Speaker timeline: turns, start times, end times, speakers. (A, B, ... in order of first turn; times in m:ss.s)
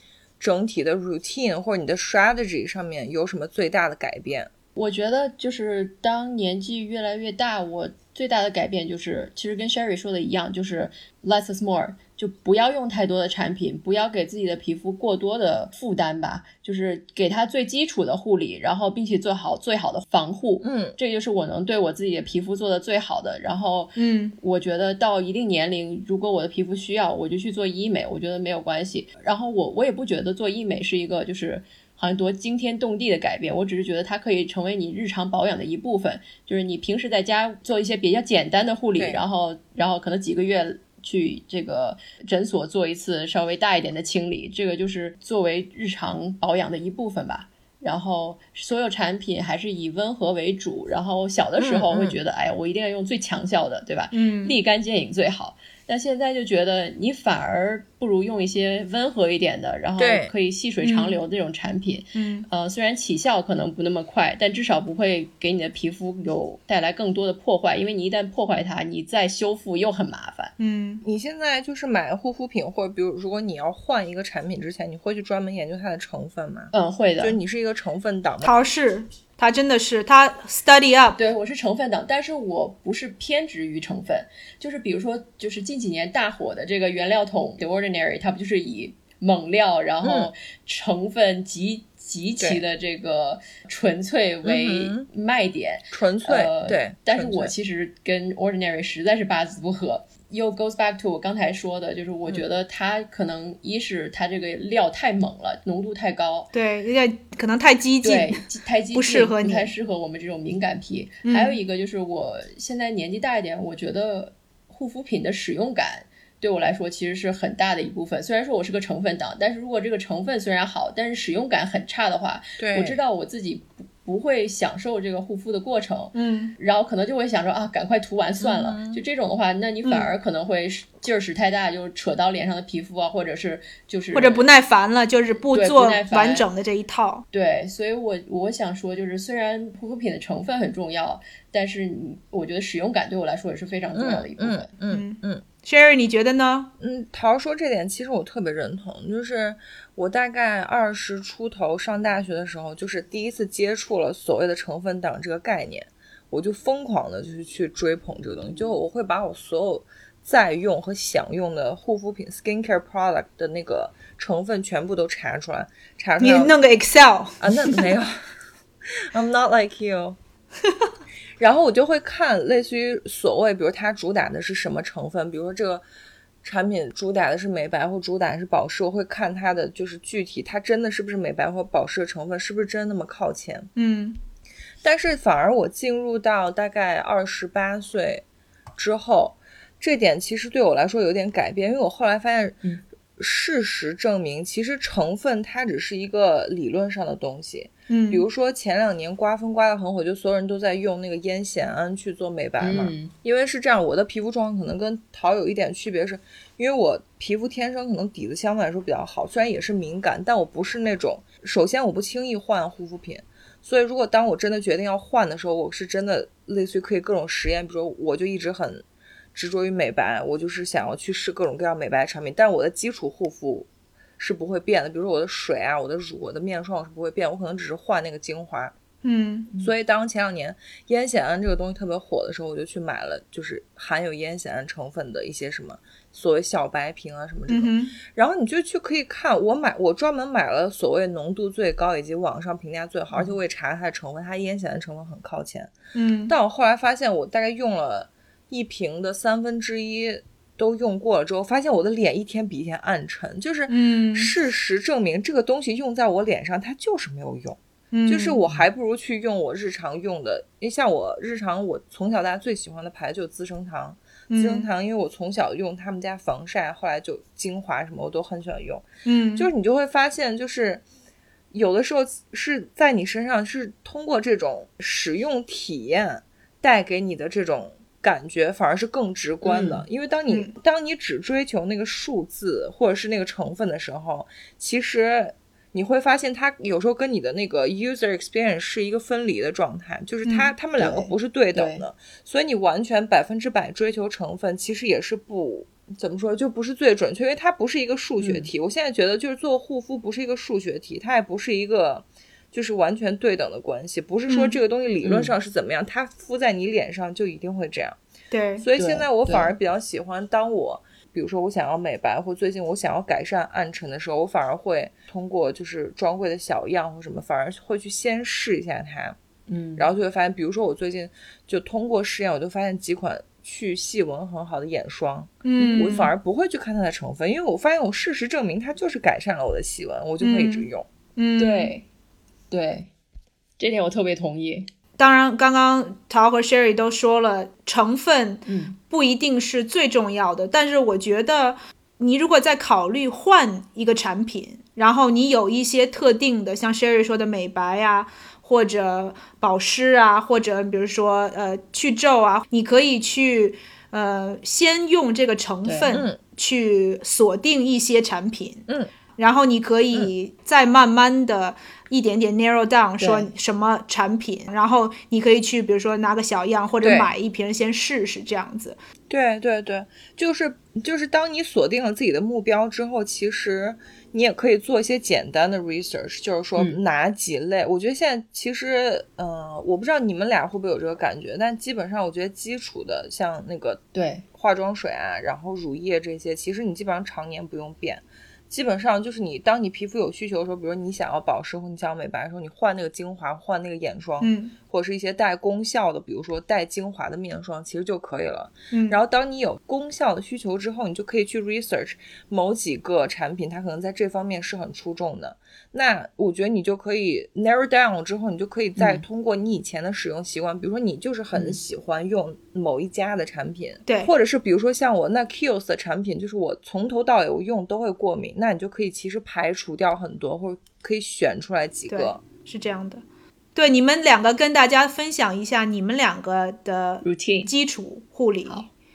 0:00.4-0:04.5 A
0:04.7-1:10.5 B
0:20.6-0:21.0 A
0:24.0-0:24.4 C
0:51.6-0:52.2 A
0:54.1-0:54.6 C
1:00.0-1:00.3 A
1:00.8-1:01.2 C
1:02.1-1:02.5 C
1:10.6-1:11.0 C
1:11.0-1:18.5 A
1:16.7-1:17.4 B
1:18.4-1:21.2 C
1:21.2-1:46.5 B
1:30.0-1:30.3 A
1:34.4-1:35.1 A
1:35.9-1:37.5 A
1:46.5-1:49.7 C
1:48.0-2:14.4 B
1:51.2-1:51.6 C
2:02.6-2:03.0 A
2:06.1-2:06.5 C
2:08.4-2:09.0 A
2:09.8-2:10.1 C
2:14.1-2:17.2 C
2:15.5-2:16.4 B
2:17.3-2:24.7 B
2:23.9-2:25.4 A
2:24.9-2:26.7 C
2:26.8-2:46.5 A
2:46.2-2:47.9 C
2:47.4-2:48.2 A
2:49.1-2:50.2 A
2:51.4-2:55.8 A
2:56.4-3:03.7 A
3:03.8-3:04.2 C
3:04.8-3:08.2 A
3:08.8-3:12.6 A
3:13.2-3:48.7 A
3:17.9-3:18.2 C
3:22.6-3:23.1 B
3:49.0-3:49.5 C
3:49.6-4:05.8 A
3:57.5-3:58.0 C
4:05.9-4:06.3 C
4:06.3-4:30.8 A
4:13.7-4:14.3 C
4:17.9-4:18.4 C
4:24.3-4:24.7 C
4:29.0-4:29.5 C
4:31.5-5:08.0 A
4:39.4-4:39.8 B
4:50.2-4:50.5 C
4:50.8-4:51.8 B
4:58.2-4:58.5 B
5:04.3-5:04.6 C
5:05.0-5:05.3 B
5:08.3-5:08.6 C
5:08.6-5:19.2 A
5:08.8-5:09.5 B
5:19.5-5:19.9 B
5:19.8-5:30.9 A
5:25.4-5:26.1 C
5:30.2-5:31.7 C
5:31.4-5:31.8 B
5:32.5-5:32.9 B
5:33.6-5:34.7 B
5:35.0-5:58.6 C
5:38.4-5:38.7 B
5:55.6-5:56.0 B
5:55.9-5:56.2 A
5:59.2-6:08.8 C
6:03.0-6:03.3 B
6:06.8-6:07.1 A
6:09.1-7:02.2 A
6:23.9-6:24.2 B
6:34.2-6:34.5 C
6:38.7-6:39.0 C
6:48.8-6:49.0 B
6:51.3-6:51.6 B
6:53.8-6:54.1 C
7:01.9-7:03.0 C
7:03.6-7:08.7 C
7:07.0-7:07.5 B